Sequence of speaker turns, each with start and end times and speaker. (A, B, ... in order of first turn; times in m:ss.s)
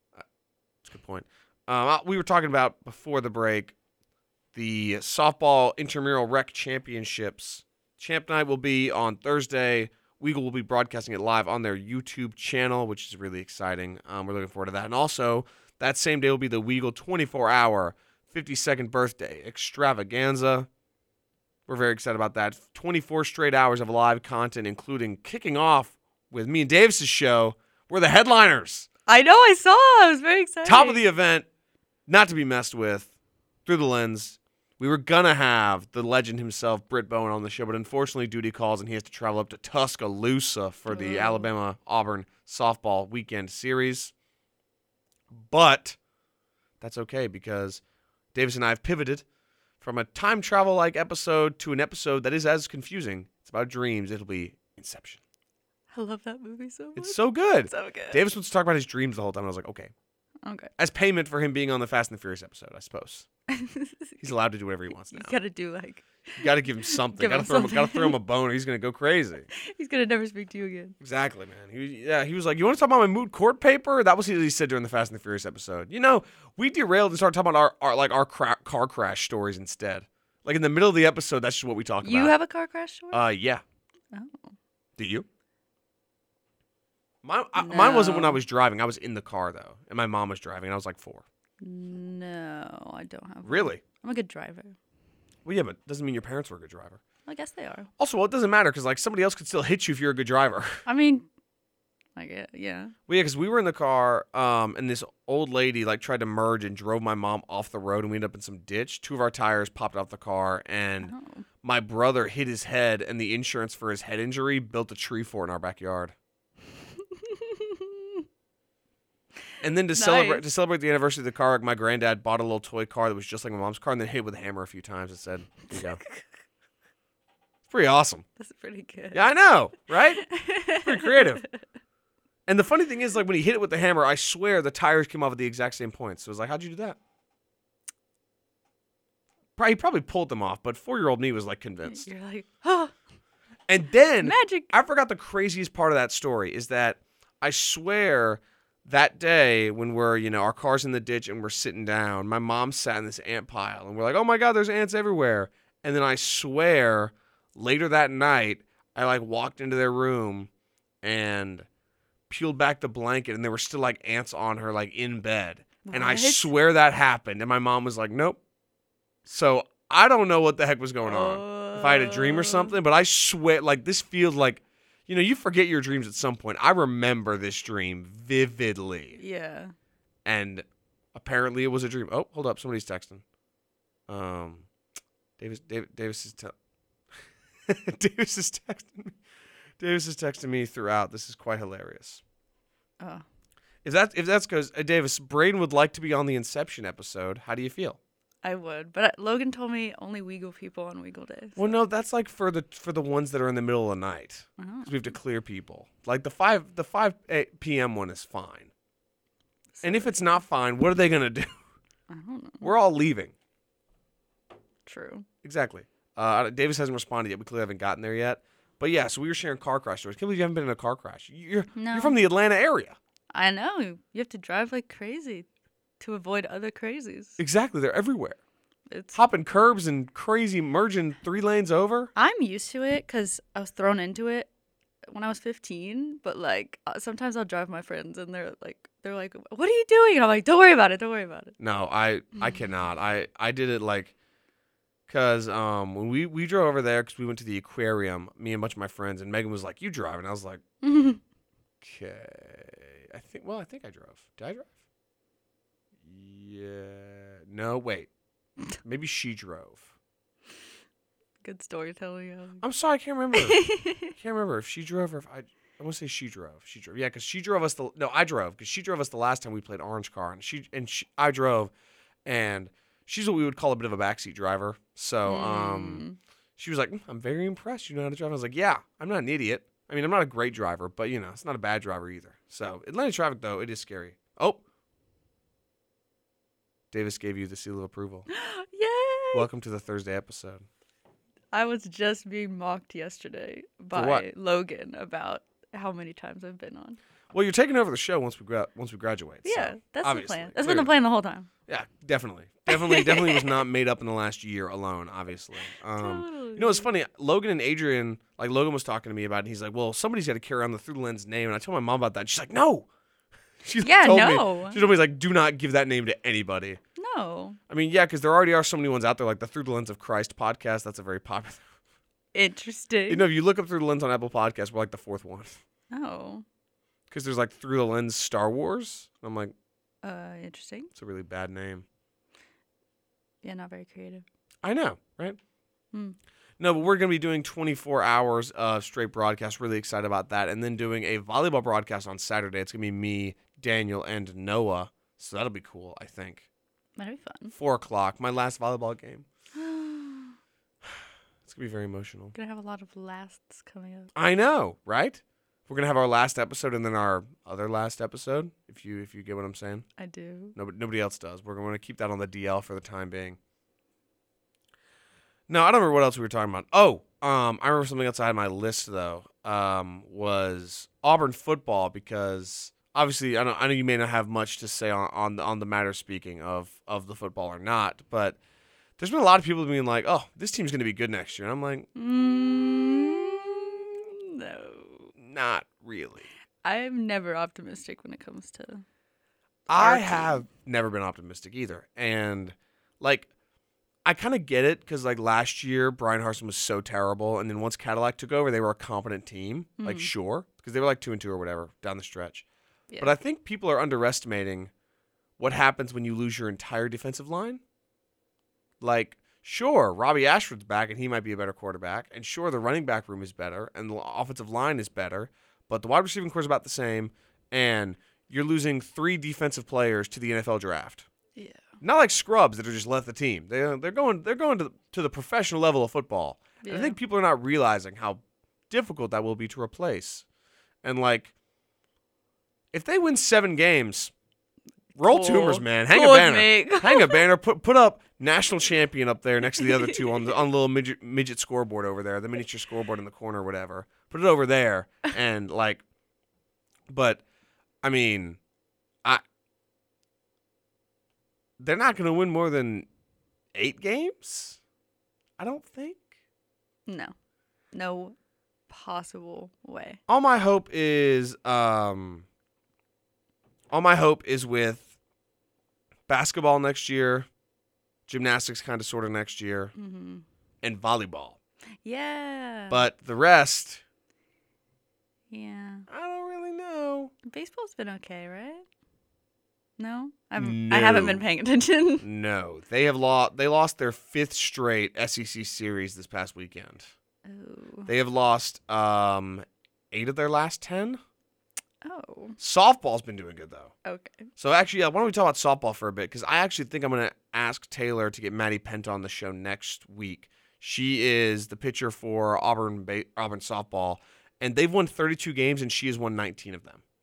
0:00.8-0:03.7 A
0:04.5-0:20.7 A
0:21.7-0:28.9 A
0:29.1-0:31.0 B
0:30.6-0:31.4 A
0:32.1-0:33.1 A
0:33.6-0:44.1 A
0:40.9-0:41.5 B
0:45.3-0:46.0 A
0:46.8-0:47.8 A
0:48.3-0:49.2 A
0:49.8-0:55.2 A
0:55.9-0:58.2 B
0:57.0-0:59.9 A
1:00.4-1:00.7 B
1:00.8-1:03.2 A
1:03.5-1:04.2 B
1:04.2-1:05.4 A
1:05.1-1:08.2 B
1:06.4-1:09.5 A
1:09.5-1:10.9 B
1:11.0-1:22.3 A
1:22.0-1:23.2 B
1:23.1-1:23.6 A
1:24.1-1:24.5 B
1:25.0-1:25.2 A
1:27.2-1:31.2 A
1:27.6-1:28.4 B
1:31.6-1:34.8 B
1:33.4-1:33.8 A
1:35.4-1:37.0 A
1:37.2-1:37.9 B
1:38.0-1:40.8 A
1:40.8-1:41.3 B
1:42.2-1:42.9 B
1:43.1-1:56.1 A
1:51.0-1:51.4 B
1:57.1-1:58.2 B
1:59.6-2:06.0 A
1:59.9-2:00.4 B
2:05.7-2:06.2 B
2:07.7-2:08.2 A
2:08.4-2:09.3 B
2:09.1-2:11.4 A
2:10.2-2:11.5 B
2:12.5-2:17.0 A
2:19.6-2:22.1 A
2:21.8-2:22.9 B
2:23.7-2:40.5 A
2:24.2-2:24.7 B
2:41.0-2:41.7 A
2:42.3-2:48.4 A
2:45.8-2:46.5 B
2:49.2-2:59.2 A
2:51.0-2:52.8 B
2:59.1-2:59.7 B
3:00.2-3:03.2 A
3:04.1-3:04.7 A
3:05.4-3:06.5 A
3:07.7-3:09.2 A
3:09.8-3:12.2 A
3:13.0-3:13.2 B
3:13.8-3:18.0 A
3:18.4-3:21.8 B
3:21.6-3:28.7 A
3:24.6-3:25.1 B
3:29.7-3:30.4 B
3:29.8-3:31.6 A
3:32.1-3:32.7 B
3:32.6-3:33.3 A
3:34.8-3:35.2 B
3:35.4-3:43.0 A
3:41.7-3:42.2 B
3:43.3-3:45.4 B
3:46.0-3:47.4 B
3:47.4-3:48.4 A
3:48.9-3:49.2 B
3:49.1-3:52.1 A
3:52.1-3:54.5 B
3:55.1-4:01.6 B
4:01.6-4:04.1 A
4:05.1-4:10.6 A
4:10.8-4:11.2 B
4:11.8-4:14.7 A
4:16.0-4:18.1 A
4:18.8-4:19.8 A
4:21.4-4:22.6 B
4:22.6-4:31.7 A
4:23.3-4:24.1 B
4:32.2-4:36.0 A
4:35.2-4:36.2 B
4:36.6-4:44.6 A
4:46.9-4:48.3 A
4:48.3-4:49.5 B
4:49.3-4:50.6 A
4:51.5-4:57.0 B
4:53.9-4:54.2 A
4:57.3-5:00.9 A
4:59.4-5:01.5 B
5:01.7-5:12.9 A
5:02.7-5:03.6 B
5:05.9-5:06.9 B
5:13.6-5:16.8 A
5:13.8-5:14.8 B
5:17.0-5:17.6 B
5:17.7-5:21.7 A
5:22.3-5:23.2 B
5:23.1-5:25.6 A
5:25.9-5:26.4 B
5:27.1-5:29.5 A
5:30.0-5:30.9 B
5:30.9-5:31.8 A
5:33.4-5:34.2 B
5:34.6-5:35.4 A
5:36.6-5:46.4 A
5:47.0-5:47.5 B
5:47.5-5:49.2 A
5:49.5-5:50.3 B
5:51.4-5:52.3 A
5:52.3-5:54.1 B
5:54.1-5:59.8 A
6:00.0-6:00.6 B
6:00.5-6:03.4 A
6:05.5-6:18.4 A
6:19.0-6:21.9 A
6:21.9-6:25.1 B
6:25.2-6:26.3 A
6:26.6-6:28.8 B
6:29.7-6:33.3 A
6:29.7-6:30.4 B
6:34.0-6:42.4 A
6:39.8-6:40.1 B
6:42.9-6:43.1 B
6:43.0-6:44.7 A
6:45.4-6:47.6 A
6:48.8-7:01.0 A
7:01.4-7:01.7 B
7:01.8-7:10.2 A
7:06.6-7:07.0 B
7:10.8-7:11.3 A
7:12.7-7:14.1 A
7:15.0-7:25.8 A
7:15.0-7:17.2 B
7:19.6-7:20.3 B
7:26.9-7:27.2 A
7:27.8-7:28.4 A
7:31.6-7:32.9 A
7:33.5-7:34.6 A
7:35.4-7:36.1 A
7:36.9-7:37.1 B
7:37.7-7:38.1 B
7:38.7-7:40.0 B
7:40.1-7:42.2 A
7:43.7-7:44.9 A
7:46.1-7:47.3 A
7:48.1-7:49.7 A
7:49.7-7:50.2 B
7:50.6-7:51.4 A
7:51.8-7:52.8 B
7:52.7-7:53.8 A
7:55.3-7:55.9 B
7:55.9-7:57.1 A
7:57.2-7:58.6 B
7:59.8-8:02.0 B
8:00.4-8:01.2 A
8:02.0-8:06.9 A
8:07.2-8:07.9 B
8:07.9-8:11.0 A
8:11.8-8:12.4 B
8:12.4-8:13.7 A
8:13.8-8:14.3 B
8:14.4-8:26.8 A